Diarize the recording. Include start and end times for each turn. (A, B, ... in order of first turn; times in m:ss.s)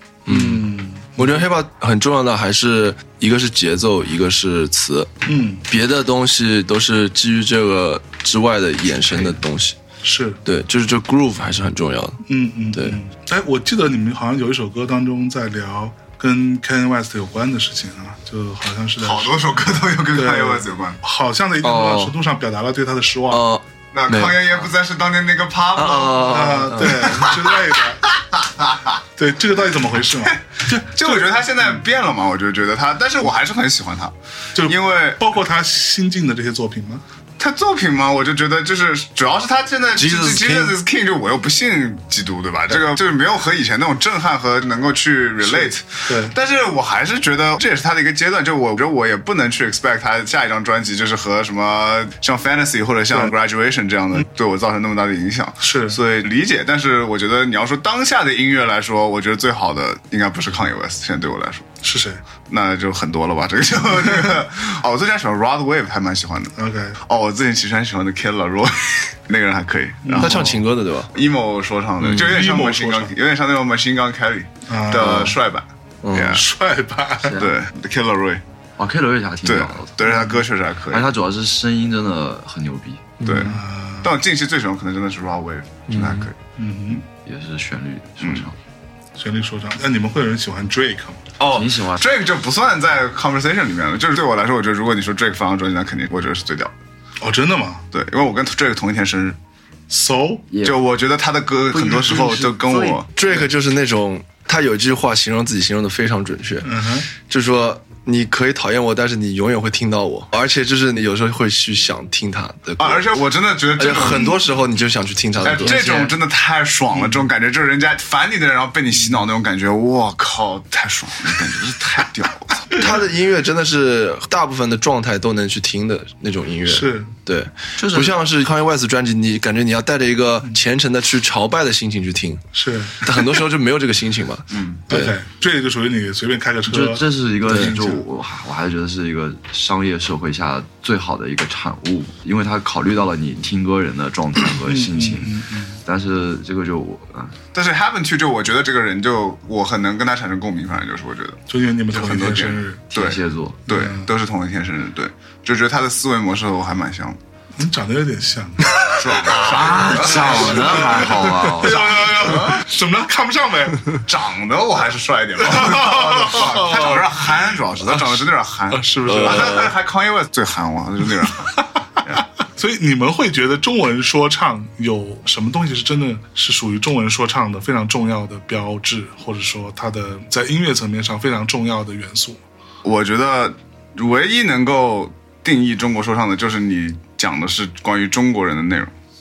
0:00.3-0:05.1 A
0:00.3-0:01.5 B
0:05.3-0:05.6 B
0:05.7-0:09.8 A
0:09.1-0:09.4 B
0:10.0-0:10.4 B
0:10.4-0:13.0 A
0:12.3-0:19.3 B
0:19.0-0:21.0 C
0:20.2-0:23.4 B
0:21.6-0:22.2 A
0:23.3-0:24.4 A
0:23.9-0:29.0 C
0:25.8-0:27.2 A
0:26.3-0:28.0 B
0:29.2-0:31.3 B
0:30.2-0:35.2 C
0:34.6-0:37.0 B
0:37.4-1:01.7 C
0:40.0-0:40.8 A
0:45.4-0:46.3 B
0:55.6-0:56.0 B
1:01.8-1:02.2 B
1:02.5-1:16.5 C
1:06.6-1:07.0 B
1:10.0-1:10.5 B
1:10.2-1:11.1 A
1:12.0-1:13.1 B
1:14.7-1:15.4 B
1:16.0-1:16.4 A
1:16.3-1:17.4 B
1:17.2-1:17.5 D
1:17.4-1:18.4 C
1:18.8-1:20.0 D
1:19.4-1:21.1 C
1:20.0-1:20.4 B
1:20.9-1:23.1 D
1:23.2-1:23.5 A
1:23.2-1:27.0 C
1:23.3-1:24.1 B
1:25.9-1:26.3 A
1:26.6-1:27.0 B
1:27.2-1:28.6 D
1:28.2-1:28.5 C
1:29.2-1:31.3 B
1:31.4-1:32.1 D
1:31.5-1:36.7 C
1:37.2-1:37.8 B
1:37.9-1:39.4 C
1:39.9-1:40.5 B
1:40.5-1:40.8 D
1:40.6-1:43.5 C
1:41.7-1:43.1 D
1:43.2-1:53.1 A
1:46.6-1:47.1 B
1:52.8-1:54.4 C
1:53.8-1:55.8 A
1:55.4-2:02.9 C
1:55.6-1:56.1 D
2:01.2-2:02.1 D
2:02.8-2:12.4 A
2:06.7-2:07.1 B
2:07.8-2:08.2 D
2:12.6-2:13.2 B
2:13.0-2:15.2 A
2:14.5-2:14.9 C
2:14.9-2:17.1 B
2:16.7-2:27.4 D
2:17.5-2:17.7 A
2:17.6-2:18.0 C
2:24.6-2:25.8 B
2:27.5-2:37.2 C
2:31.5-2:32.8 B
2:32.9-2:33.6 D
2:33.7-2:34.1 B
2:37.6-2:44.0 B
2:39.0-2:42.6 C
2:39.3-2:42.1 D
2:44.1-2:52.2 C
2:45.4-2:47.3 B
2:48.7-2:49.7 B
2:49.0-2:49.7 A
2:52.4-3:02.4 B
3:02.8-3:08.9 C